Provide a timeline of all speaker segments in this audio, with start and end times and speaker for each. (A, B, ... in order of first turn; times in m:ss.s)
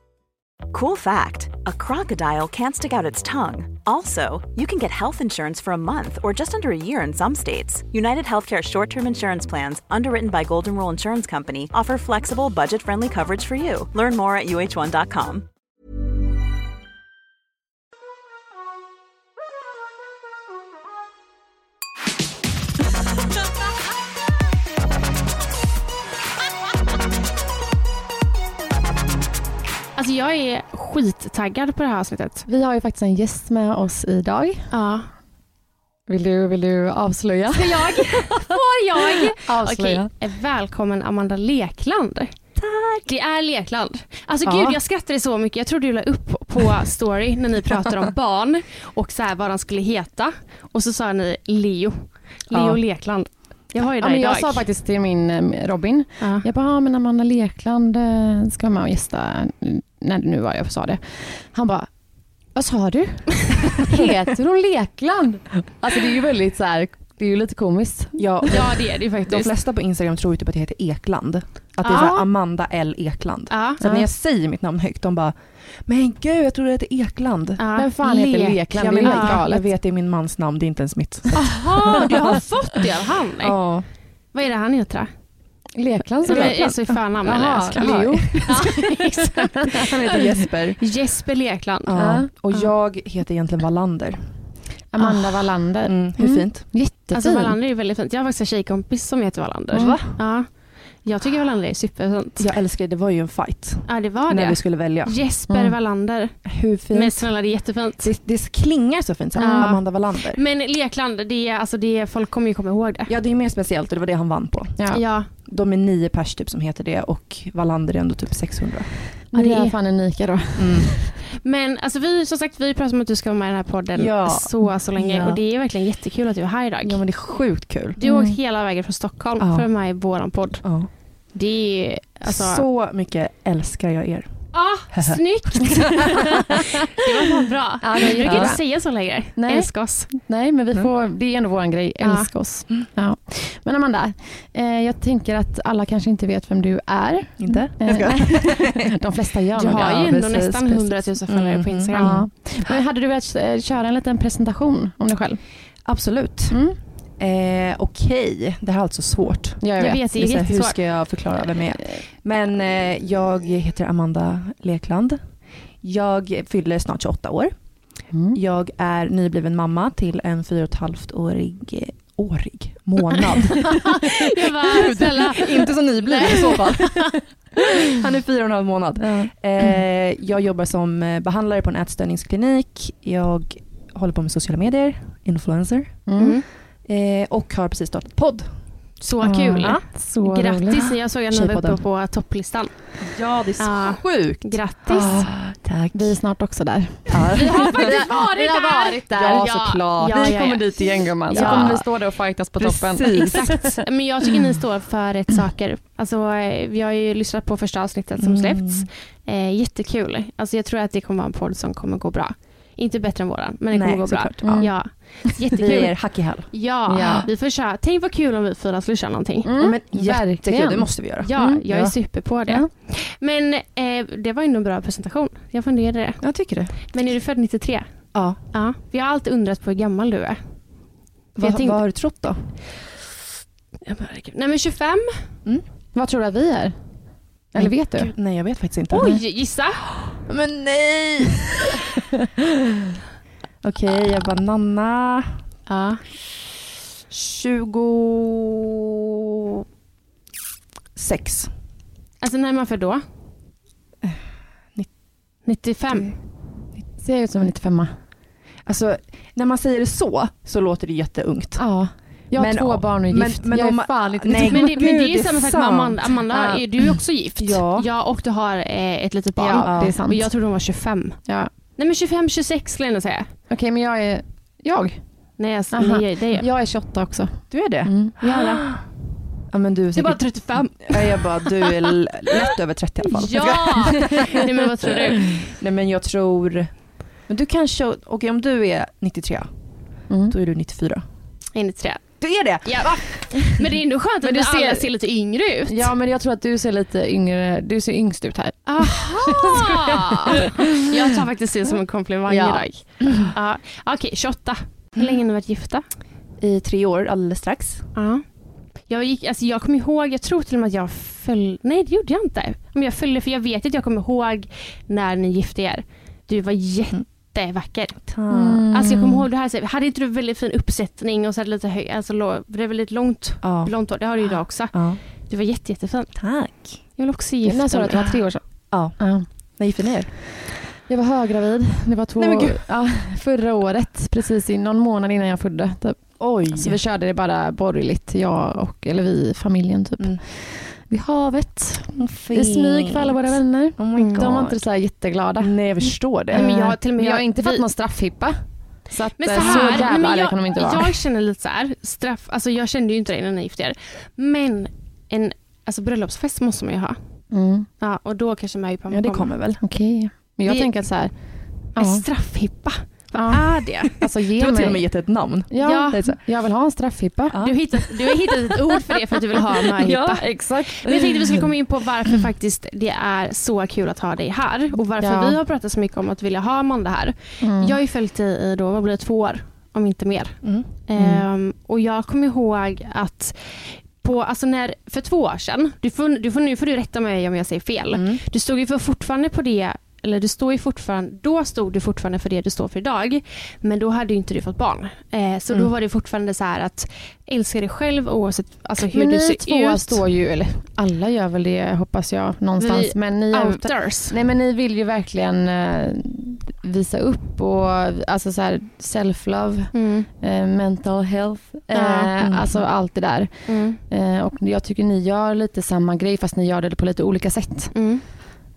0:00.7-0:15.5 A
0:30.0-0:32.5 B
0:32.5-0:34.7 C
0:34.7-0:35.1 B
0:36.1-0:38.6 C
0:37.5-0:42.4 B
0:39.3-0:40.1 C
0:42.6-0:43.0 D
0:43.0-0:54.7 B
0:44.4-0:44.8 D
0:52.5-0:52.8 D
0:54.0-1:01.9 C
0:56.2-0:56.5 B
1:02.5-1:08.6 C
1:08.2-1:22.4 D
1:08.4-1:09.5 B
1:11.8-1:12.2 B
1:11.9-1:12.2 C
1:13.5-1:13.8 B
1:17.6-1:17.9 B
1:17.8-1:19.7 C
1:18.6-1:19.4 B
1:21.3-1:23.6 B
1:21.4-1:22.2 C
1:23.4-1:23.9 D
1:24.3-1:25.1 B
1:25.8-1:30.3 C
1:26.2-1:26.7 D
1:26.2-1:30.2 B
1:27.7-1:28.8 D
1:29.6-1:30.8 D
1:30.8-1:32.7 B
1:31.9-1:34.3 D
1:32.0-1:32.3 C
1:34.9-1:37.2 C
1:35.0-1:35.5 B
1:35.8-1:37.5 D
1:37.1-1:42.5 B
1:39.7-1:40.2 D
1:39.7-1:40.0 C
1:42.4-1:45.2 D
1:43.9-1:48.1 B
1:45.5-1:45.8 C
1:46.5-1:47.3 D
1:48.0-1:50.4 D
1:49.4-1:49.8 C
1:49.4-1:53.1 B
1:53.1-1:59.0 D
1:54.9-1:55.3 B
1:59.3-2:01.2 C
1:59.3-1:59.8 B
2:00.6-2:01.0 D
2:01.4-2:12.6 B
2:03.9-2:05.4 D
2:06.8-2:08.0 D
2:08.1-2:08.4 C
2:09.4-2:09.7 D
2:10.6-2:10.9 D
2:12.3-2:15.7 D
2:14.5-2:20.3 B
2:17.8-2:18.7 C
2:18.0-2:18.6 D
2:19.4-2:30.2 C
2:22.0-2:22.3 B
2:27.4-2:28.9 D
2:29.6-2:32.3 B
2:29.8-2:32.8 D
2:32.0-2:35.4 C
2:35.8-2:36.6 D
2:36.5-2:36.8 C
2:37.2-2:57.3 D
2:39.6-2:40.0 C
2:39.8-2:41.2 B
2:48.1-2:48.4 C
2:54.0-2:57.2 B
2:57.8-3:06.2 D
3:06.1-3:06.4 C
3:06.2-3:06.5 B
3:06.8-3:08.7 D
3:09.0-3:13.0 B
3:09.2-3:09.9 D
3:09.2-3:10.8 C
3:10.8-3:11.8 D
3:13.0-3:16.2 D
3:13.6-3:15.1 B
3:14.9-3:23.8 C
3:17.1-3:17.9 D
3:17.4-3:21.9 B
3:19.2-3:21.9 D
3:22.6-3:23.8 D
3:23.1-3:39.5 B
3:28.2-3:28.9 D
3:33.7-3:35.0 D
3:34.4-3:34.7 C
3:35.5-3:37.3 D
3:36.9-3:37.3 C
3:39.4-3:41.6 C
3:39.6-3:42.0 D
3:41.2-3:50.6 B
3:46.2-3:47.0 D
3:48.1-3:48.4 D
3:51.4-3:52.6 D
3:51.4-3:52.2 B
3:53.8-3:55.3 B
3:55.9-3:56.8 C
3:57.5-3:58.1 C
3:57.6-3:59.2 D
3:58.9-4:00.1 B
4:00.3-4:01.7 D
4:03.6-4:05.4 D
4:05.7-4:06.0 B
4:07.1-4:08.7 D
4:11.0-4:11.5 D
4:12.2-4:13.0 B
4:14.0-4:14.9 D
4:15.4-4:16.2 B
4:16.8-4:17.6 D
4:17.0-4:18.0 C
4:18.6-4:26.2 D
4:21.6-4:24.8 C
4:24.5-4:33.3 B
4:26.3-4:26.6 C
4:27.4-4:27.9 D
4:29.4-4:30.0 D
4:29.6-4:30.3 C
4:33.5-4:38.4 C
4:35.4-4:36.5 B
4:37.4-4:38.9 D
4:38.2-4:38.6 B
4:39.5-4:46.8 D
4:39.9-4:41.9 B
4:43.1-4:45.5 B
4:43.9-4:44.3 C
4:47.3-4:51.0 D
4:50.1-4:50.4 C
4:51.5-4:55.9 B
4:52.2-4:53.4 D
4:54.2-4:54.8 C
4:55.7-4:59.7 C
4:58.7-5:05.8 B
5:02.3-5:03.3 D
5:06.4-5:07.9 D
5:08.0-5:08.2 B
5:08.9-5:18.1 B
5:18.0-5:18.7 D
5:18.3-5:19.2 C
5:18.7-5:28.1 B
5:23.4-5:25.0 D
5:26.2-5:27.0 D
5:27.4-5:29.6 C
5:27.9-5:30.2 D
5:30.8-5:51.0 C
5:32.2-5:32.9 D
5:36.2-5:36.8 D
5:40.0-5:40.2 D
5:41.9-5:44.7 D
5:44.0-5:44.3 B
5:45.4-5:46.5 D
5:46.3-5:47.6 B
5:49.2-5:59.3 B
5:49.4-5:49.9 D
5:57.3-5:57.7 C
5:58.9-5:59.6 D
5:59.6-6:02.0 C
6:00.5-6:04.0 B
6:03.1-6:07.4 C
6:04.1-6:06.2 D
6:05.6-6:06.0 B
6:07.3-6:07.6 D
6:07.4-6:40.0 B
6:09.8-6:11.5 C
6:15.0-6:15.4 C
6:17.4-6:17.8 C
6:20.4-6:20.8 D
6:21.0-6:21.2 C
6:27.9-6:28.2 D
6:38.8-6:58.1 C
6:42.6-6:44.2 B
6:49.7-6:50.1 B
6:51.7-6:52.1 B
6:52.2-6:52.6 D
6:53.5-6:53.8 B
6:57.7-6:58.5 B